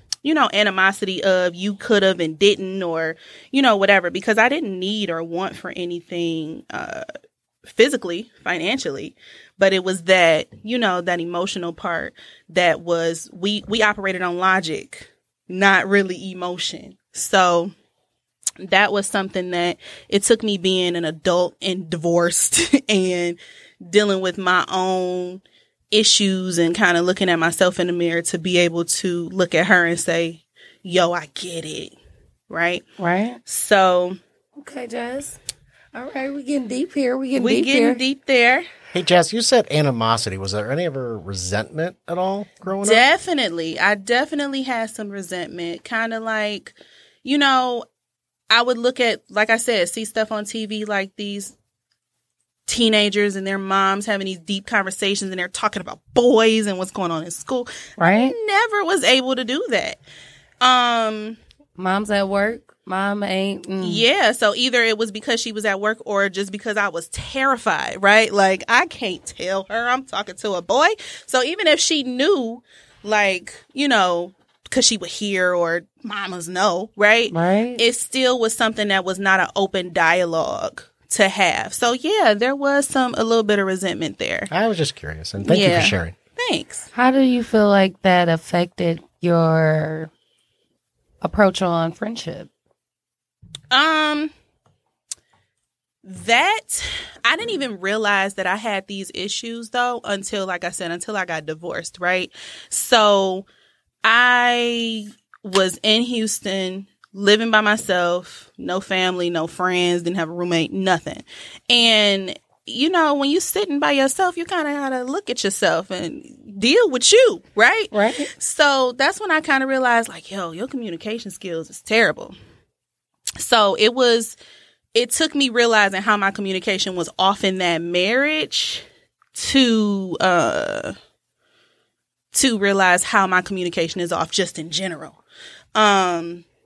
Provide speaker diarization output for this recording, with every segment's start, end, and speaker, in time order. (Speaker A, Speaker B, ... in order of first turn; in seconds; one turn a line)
Speaker A: 0.2-7.1
Speaker A: 7.7-17.7
Speaker A: 18.6-31.9
Speaker A: 32.5-32.8
Speaker B: 33.0-33.4
Speaker A: 33.5-34.2
Speaker B: 34.6-35.4
Speaker B: 35.9-38.0
Speaker A: 37.4-38.7
Speaker C: 38.9-43.0
Speaker A: 42.8-47.9
Speaker A: 48.5-51.5
Speaker A: 52.7-60.0
Speaker B: 58.0-58.3
Speaker A: 60.6-61.4
Speaker B: 61.8-64.0
Speaker A: 63.8-84.5
Speaker B: 77.3-77.8
Speaker C: 84.5-86.2
Speaker A: 85.5-86.9
Speaker B: 87.0-90.1
Speaker B: 91.2-92.5
Speaker A: 93.7-94.3
Speaker A: 96.0-103.5
Speaker A: 104.0-122.3
Speaker B: 117.9-118.3
Speaker A: 123.4-124.4
Speaker A: 124.9-130.9
Speaker A: 132.3-135.2
Speaker A: 135.8-136.4